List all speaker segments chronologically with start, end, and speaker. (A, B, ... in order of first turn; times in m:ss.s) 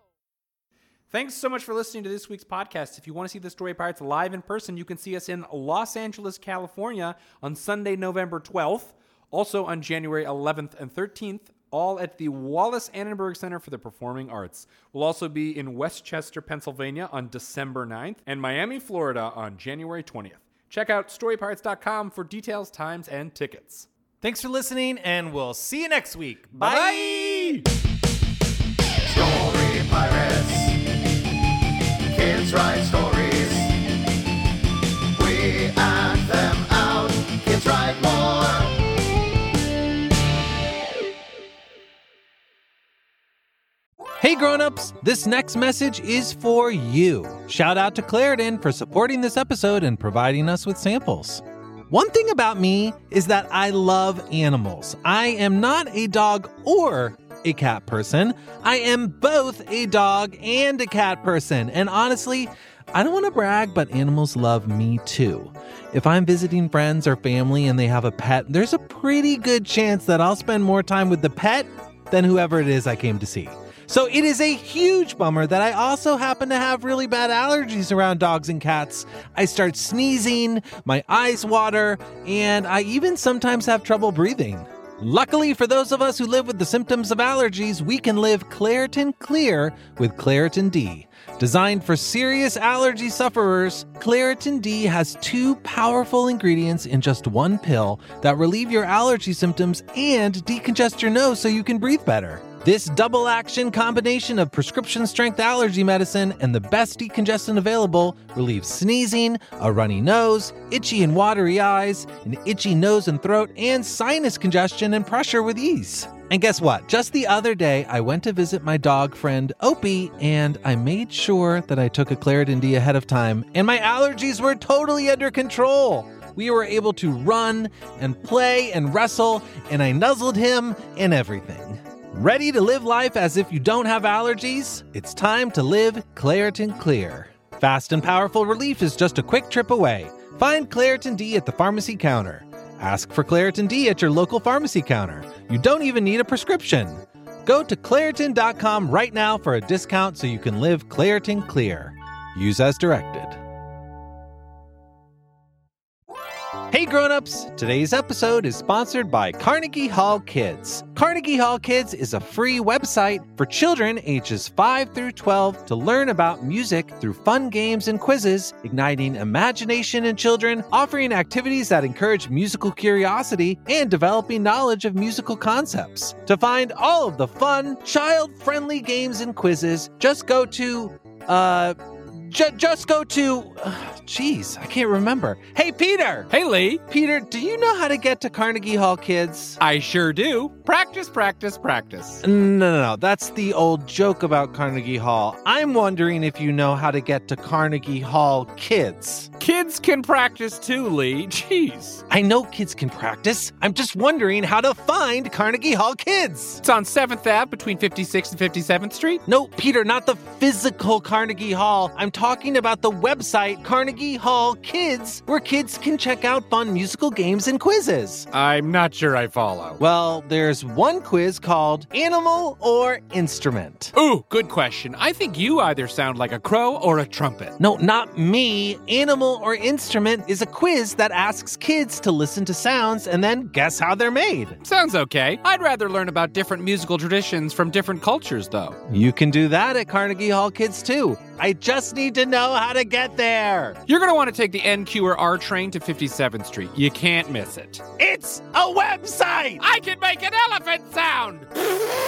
0:01.1-0:23.9 A
0:24.2-0:27.2 B
0:26.5-0:27.7 A
0:29.0-0:30.8 C
0:32.1-0:33.8 C
0:35.2-0:38.7 C
0:44.2-2:33.4 B
2:36.7-3:06.3 B
3:06.3-3:06.8 A
3:06.9-3:09.6 B
3:09.6-3:12.2 A
3:12.2-3:19.3 B
3:19.4-3:22.0 A
3:22.1-3:26.6 B
3:26.6-3:29.2 A
3:29.3-3:38.3 B
3:38.3-3:39.8 A
3:39.8-3:43.9 B
3:44.0-3:47.6 A
3:47.6-3:54.6 B
3:54.6-3:58.8 A
3:58.9-4:03.8 B
4:03.9-4:07.8 A
4:08.0-4:09.6 B
4:09.6-4:11.5 A